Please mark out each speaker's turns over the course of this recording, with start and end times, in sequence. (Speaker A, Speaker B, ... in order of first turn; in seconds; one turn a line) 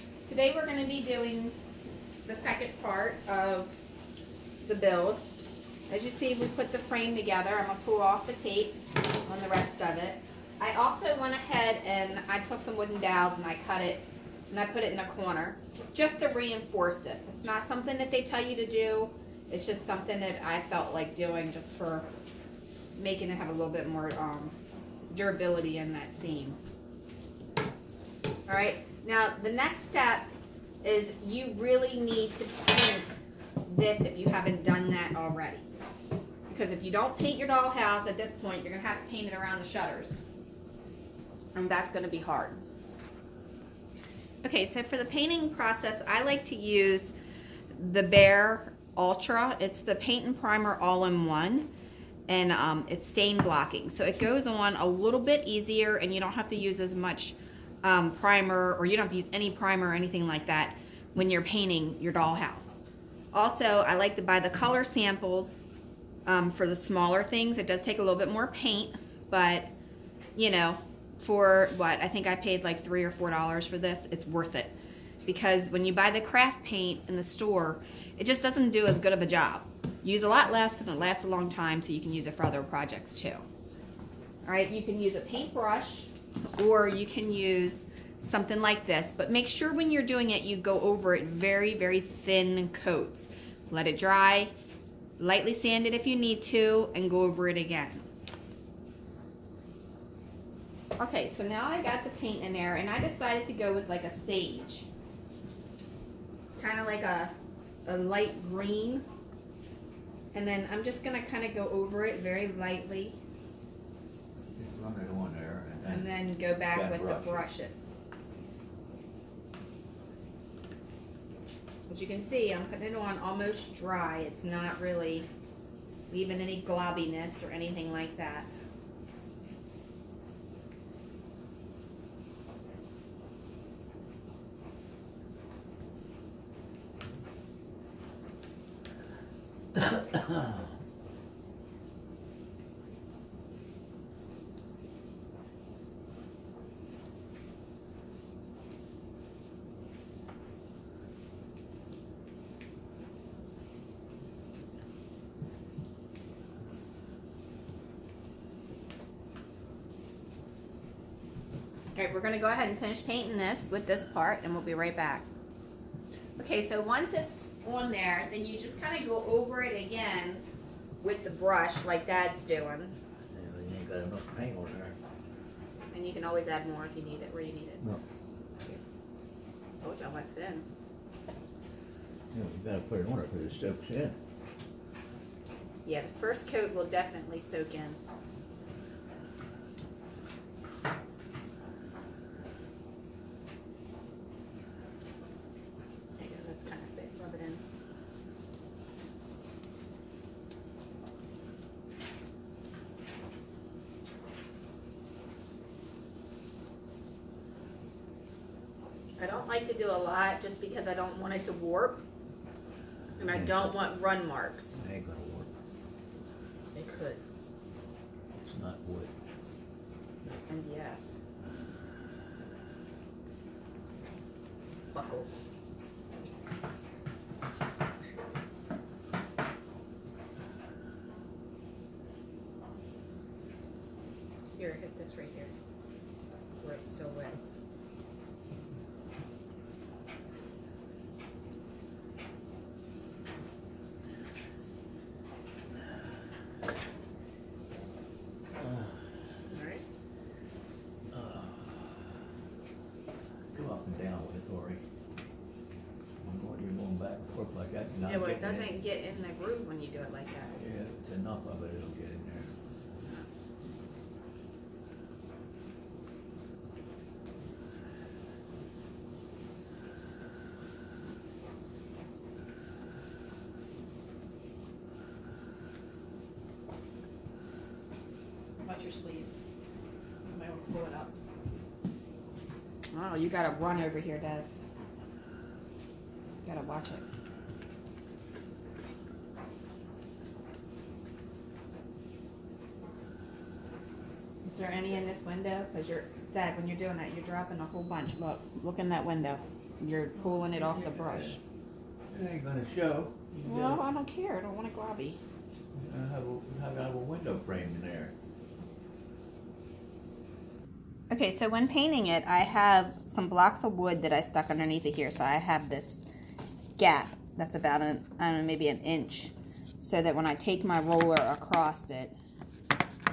Speaker A: 0.3-1.5
Speaker A: 2.2-3.8
Speaker A: 4.6-5.3
Speaker A: 5.9-22.1
Speaker A: 22.9-24.6
Speaker A: 25.1-26.6
Speaker A: 28.4-30.3
Speaker A: 30.8-33.1
Speaker A: 33.6-35.6
Speaker A: 36.5-40.2
Speaker A: 41.5-42.6
Speaker A: 44.4-47.1
Speaker A: 47.7-51.7
Speaker A: 52.3-65.7
Speaker A: 66.2-69.7
Speaker A: 70.3-74.7
Speaker A: 75.2-83.4
Speaker A: 84.5-94.5
Speaker A: 95.2-98.0
Speaker A: 101.0-104.9
Speaker A: 106.5-107.3
Speaker A: 107.8-109.0
Speaker A: 110.3-113.2
Speaker B: 114.5-116.1
Speaker A: 115.8-117.7
Speaker B: 116.7-117.4
Speaker A: 121.9-125.3
Speaker A: 126.1-128.5
Speaker A: 161.9-165.2
Speaker A: 166.4-170.4
Speaker A: 171.0-172.9
Speaker B: 173.3-174.9
Speaker A: 175.9-177.8
Speaker A: 179.8-180.7
Speaker B: 182.3-184.2
Speaker A: 185.8-188.0
Speaker A: 196.2-197.6
Speaker A: 209.2-212.0
Speaker B: 213.2-213.8
Speaker A: 213.2-214.8
Speaker B: 214.8-215.5
Speaker A: 216.7-217.2
Speaker B: 218.3-219.1
Speaker A: 220.2-221.0
Speaker A: 224.9-225.4
Speaker A: 234.6-235.5
Speaker A: 236.6-237.4
Speaker B: 248.6-248.9
Speaker A: 249.5-249.8
Speaker B: 251.1-252.0
Speaker B: 253.5-254.8
Speaker B: 256.2-258.7
Speaker A: 258.0-260.6
Speaker B: 260.6-262.5
Speaker A: 278.6-279.3
Speaker A: 280.2-281.1
Speaker A: 282.9-284.5
Speaker A: 286.4-287.0
Speaker A: 294.4-301.4
Speaker B: 300.9-301.3
Speaker B: 302.1-303.8
Speaker A: 303.4-305.2
Speaker B: 305.8-308.1
Speaker A: 311.1-316.0
Speaker A: 316.8-322.1